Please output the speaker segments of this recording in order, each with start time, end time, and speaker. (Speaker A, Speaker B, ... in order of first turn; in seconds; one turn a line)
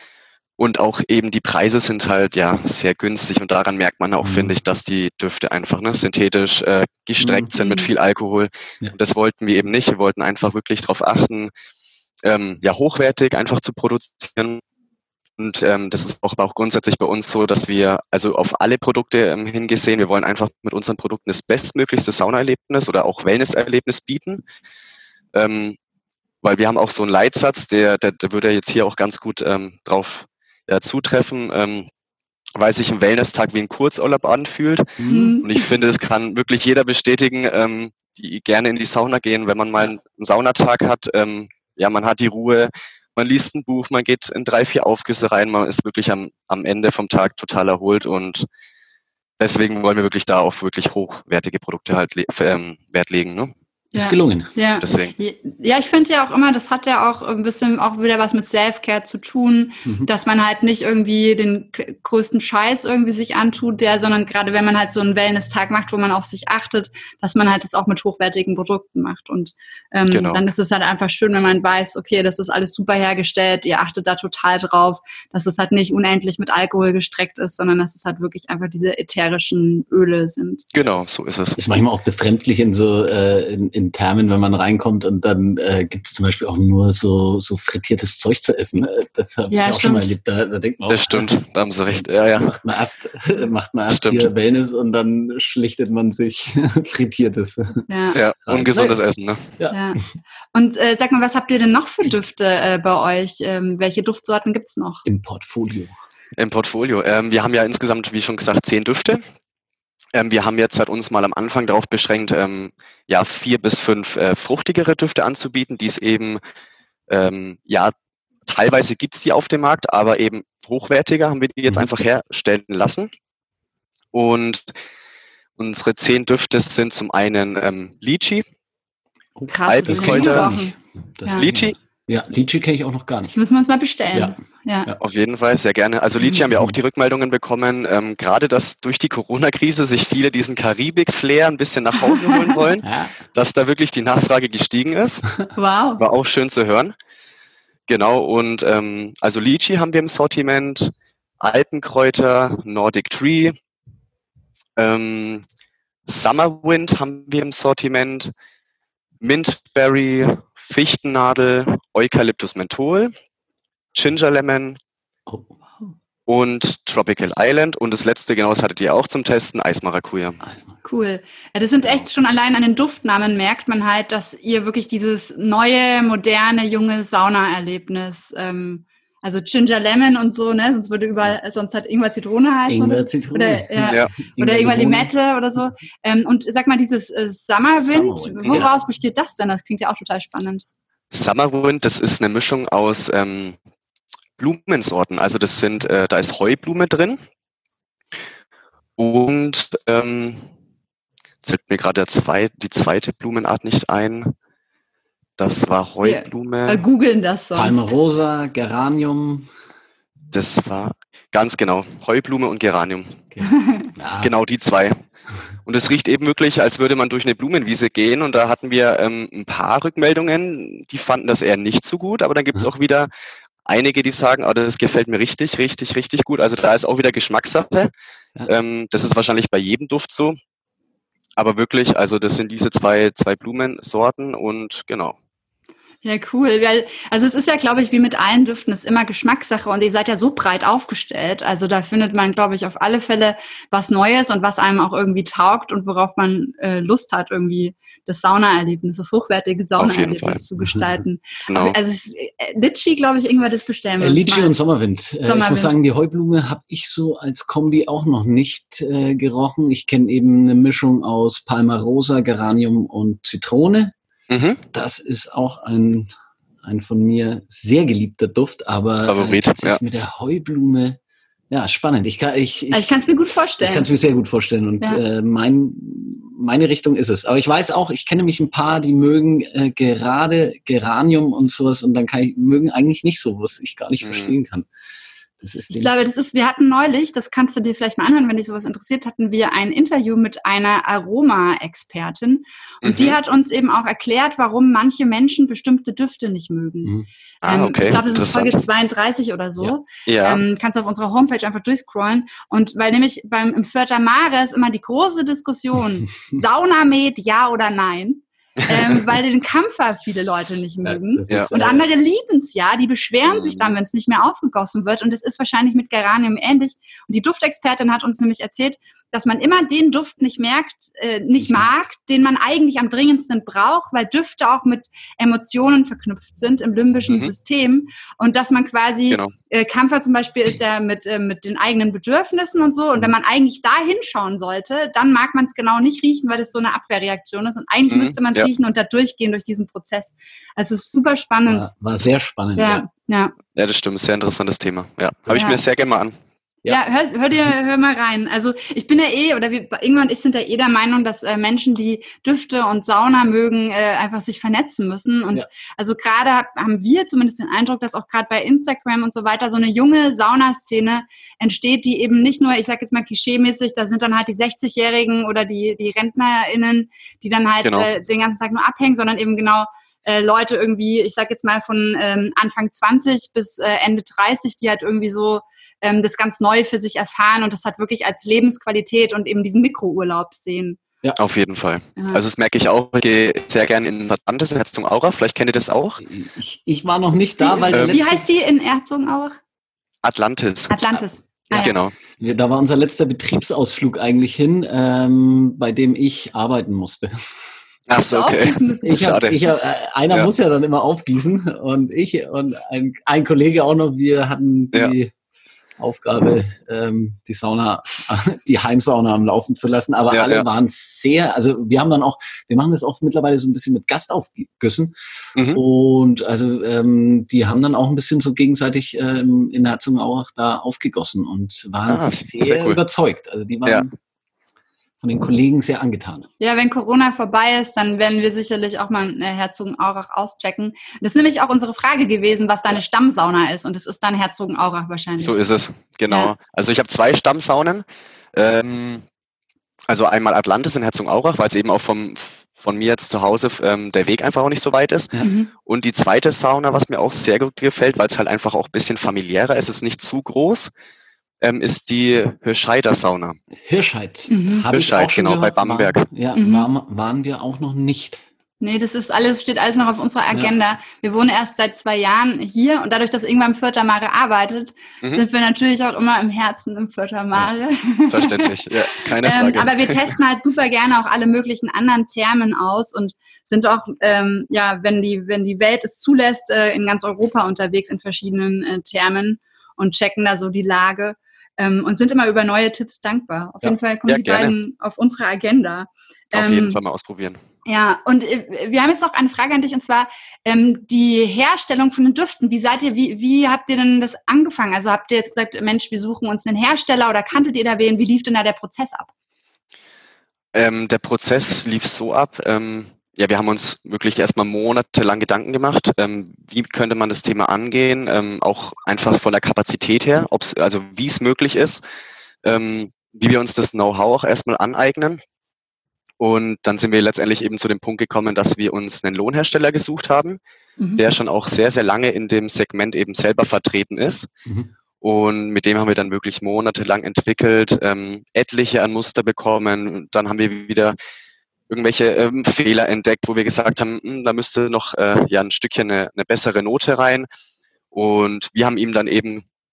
Speaker A: 0.6-11.5
Speaker B: 4.2-4.5
Speaker B: 7.2-7.5
Speaker C: 7.5-7.9
Speaker A: 12.2-14.6
Speaker A: 15.4-24.4
Speaker A: 25.3-25.8
Speaker A: 26.4-31.9
Speaker A: 32.5-48.5
Speaker B: 35.0-35.4
Speaker C: 35.1-35.6
Speaker A: 49.4-53.5
Speaker B: 53.9-54.5
Speaker C: 53.9-81.0
Speaker A: 54.8-55.1
Speaker A: 70.1-70.4
Speaker A: 80.7-81.6
Speaker B: 81.5-91.3
Speaker C: 89.5-90.1
Speaker A: 90.9-92.5
Speaker B: 91.9-97.9
Speaker A: 93.9-94.3
Speaker C: 97.9-98.2
Speaker A: 98.1-99.5
Speaker B: 98.5-99.0
Speaker C: 99.7-100.0
Speaker C: 100.5-105.0
Speaker B: 105.0-106.0
Speaker A: 106.3-109.2
Speaker A: 110.1-116.4
Speaker A: 117.1-117.9
Speaker A: 118.5-123.1
Speaker A: 124.1-124.6
Speaker A: 125.6-128.4
Speaker B: 129.3-133.3
Speaker C: 129.5-130.7
Speaker A: 129.7-130.5
Speaker A: 131.3-131.8
Speaker C: 133.3-134.9
Speaker B: 134.1-135.0
Speaker A: 135.0-145.3
Speaker B: 136.3-136.8
Speaker C: 142.1-142.6
Speaker B: 142.8-143.1
Speaker C: 145.6-146.0
Speaker A: 146.0-146.9
Speaker A: 147.9-153.5
Speaker A: 154.8-155.4
Speaker A: 156.1-158.3
Speaker A: 159.2-163.1
Speaker A: 163.9-164.8
Speaker B: 165.3-165.9
Speaker A: 166.3-170.4
Speaker B: 170.4-170.8
Speaker C: 170.8-190.6
Speaker B: 182.7-185.1
Speaker A: 183.8-184.1
Speaker B: 187.8-188.7
Speaker A: 191.1-193.6
Speaker A: 194.4-197.2
Speaker A: 199.0-200.4
Speaker A: 201.4-204.3
Speaker A: 205.4-206.8
Speaker C: 206.0-207.9
Speaker B: 207.5-209.5
Speaker A: 210.3-213.2
Speaker B: 213.3-214.3
Speaker C: 213.4-213.9
Speaker A: 214.2-215.0
Speaker A: 215.7-223.1
Speaker A: 223.7-227.9
Speaker A: 228.5-230.3
Speaker A: 231.4-235.2
Speaker C: 236.0-254.6
Speaker A: 249.8-250.4
Speaker B: 250.6-250.9
Speaker A: 251.5-251.8
Speaker B: 254.0-263.9
Speaker C: 255.2-255.7
Speaker A: 264.3-264.6
Speaker B: 264.7-266.1
Speaker B: 266.6-271.0
Speaker A: 269.1-269.8
Speaker B: 271.5-273.0
Speaker C: 272.7-273.9
Speaker B: 273.6-284.7
Speaker A: 284.0-284.3
Speaker B: 285.4-285.9
Speaker C: 285.7-341.7
Speaker A: 292.8-293.2
Speaker A: 297.4-298.6
Speaker A: 300.1-300.4
Speaker B: 310.8-311.9
Speaker B: 321.4-321.7
Speaker A: 337.9-338.5
Speaker B: 341.4-342.8
Speaker C: 342.6-343.3
Speaker A: 343.6-346.1
Speaker C: 345.3-345.6
Speaker C: 346.7-380.8
Speaker A: 367.6-367.9
Speaker A: 381.2-386.0
Speaker C: 382.0-382.2
Speaker B: 386.0-388.2
Speaker C: 387.4-389.4
Speaker A: 390.0-390.7
Speaker C: 390.7-391.8
Speaker B: 391.5-397.5
Speaker A: 391.6-391.9
Speaker A: 397.9-399.4
Speaker C: 398.1-399.1
Speaker B: 398.8-405.1
Speaker B: 405.8-414.9
Speaker A: 410.1-410.4
Speaker A: 415.4-415.6
Speaker B: 415.5-423.9
Speaker A: 421.9-422.8
Speaker B: 425.0-426.3
Speaker C: 426.4-435.4
Speaker A: 435.2-439.0
Speaker A: 439.9-445.1
Speaker C: 445.2-445.5
Speaker A: 445.6-450.7
Speaker A: 451.4-453.4
Speaker B: 453.6-458.2
Speaker C: 454.3-454.6
Speaker A: 454.7-456.0
Speaker C: 456.4-456.7
Speaker C: 458.6-468.5
Speaker A: 468.1-470.1
Speaker C: 469.2-486.8
Speaker A: 484.1-484.5
Speaker A: 486.3-487.4
Speaker C: 487.6-499.1
Speaker A: 500.5-511.8
Speaker A: 512.4-515.2
Speaker A: 516.2-520.4
Speaker A: 521.0-524.3
Speaker B: 524.4-524.7
Speaker A: 525.0-531.0
Speaker A: 531.7-537.3
Speaker A: 537.9-539.4